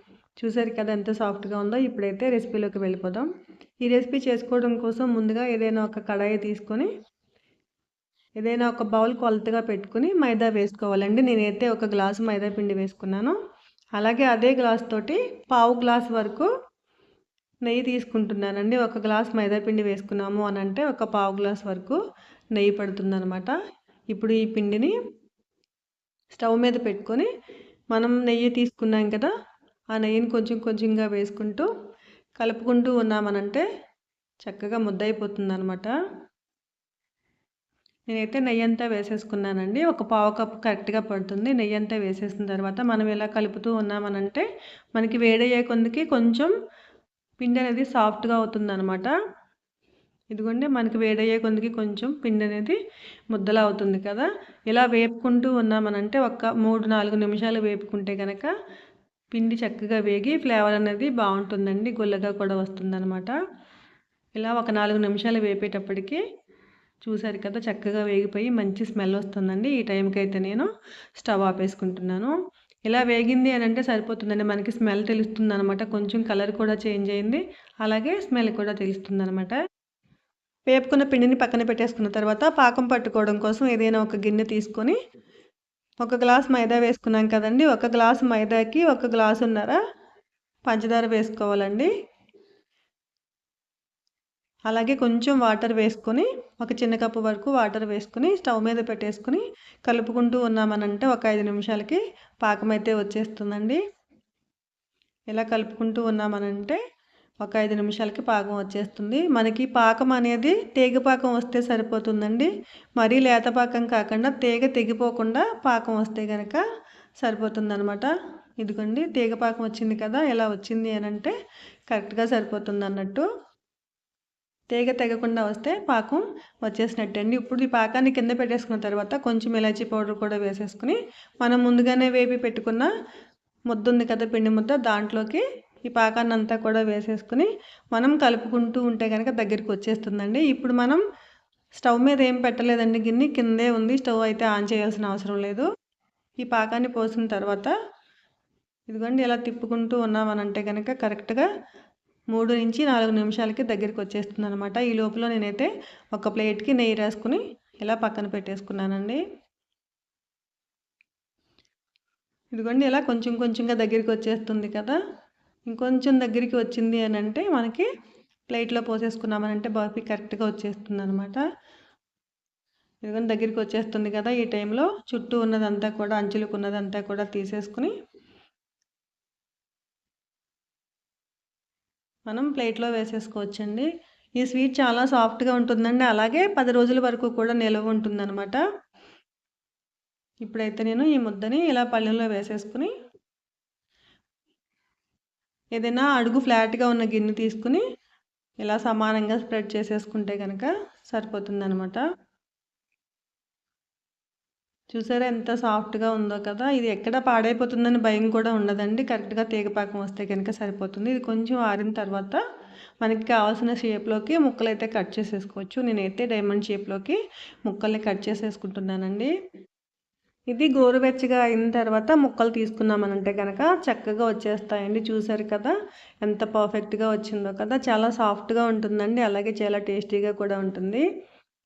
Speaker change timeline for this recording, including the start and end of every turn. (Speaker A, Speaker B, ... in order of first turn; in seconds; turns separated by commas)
Speaker A: 0.4-3.3, Speaker A: 3.8-6.9, Speaker A: 8.4-13.4, Speaker A: 14.0-16.5, Speaker A: 17.7-22.0, Speaker A: 22.6-23.5, Speaker A: 24.1-24.9, Speaker A: 26.3-27.3, Speaker A: 27.9-29.3, Speaker A: 29.9-31.7, Speaker A: 32.4-33.6, Speaker A: 34.4-36.0, Speaker A: 38.1-46.5, Speaker A: 47.4-49.1, Speaker A: 50.3-52.8, Speaker A: 53.3-58.5, Speaker A: 59.3-63.4, Speaker A: 64.4-66.2, Speaker A: 67.0-72.3, Speaker A: 72.9-79.6, Speaker A: 80.7-85.0, Speaker A: 86.0-89.8, Speaker A: 90.7-91.9, Speaker A: 94.7-103.8, Speaker A: 105.3-106.8, Speaker A: 107.4-116.6, Speaker A: 117.2-121.3, Speaker A: 121.9-123.3, Speaker A: 124.7-132.9, Speaker A: 133.7-141.0, Speaker A: 141.8-145.7, Speaker A: 146.4-147.7, Speaker A: 148.9-151.5, Speaker A: 152.3-159.2, Speaker A: 162.6-165.0, Speaker A: 165.7-167.9, Speaker A: 168.5-171.4, Speaker A: 173.1-177.9, Speaker A: 182.3-183.9, Speaker A: 184.4-188.6, Speaker A: 190.4-192.9, Speaker A: 195.8-197.8, Speaker A: 198.6-202.0, Speaker A: 204.9-212.4, Speaker A: 213.0-219.3, Speaker A: 220.5-231.1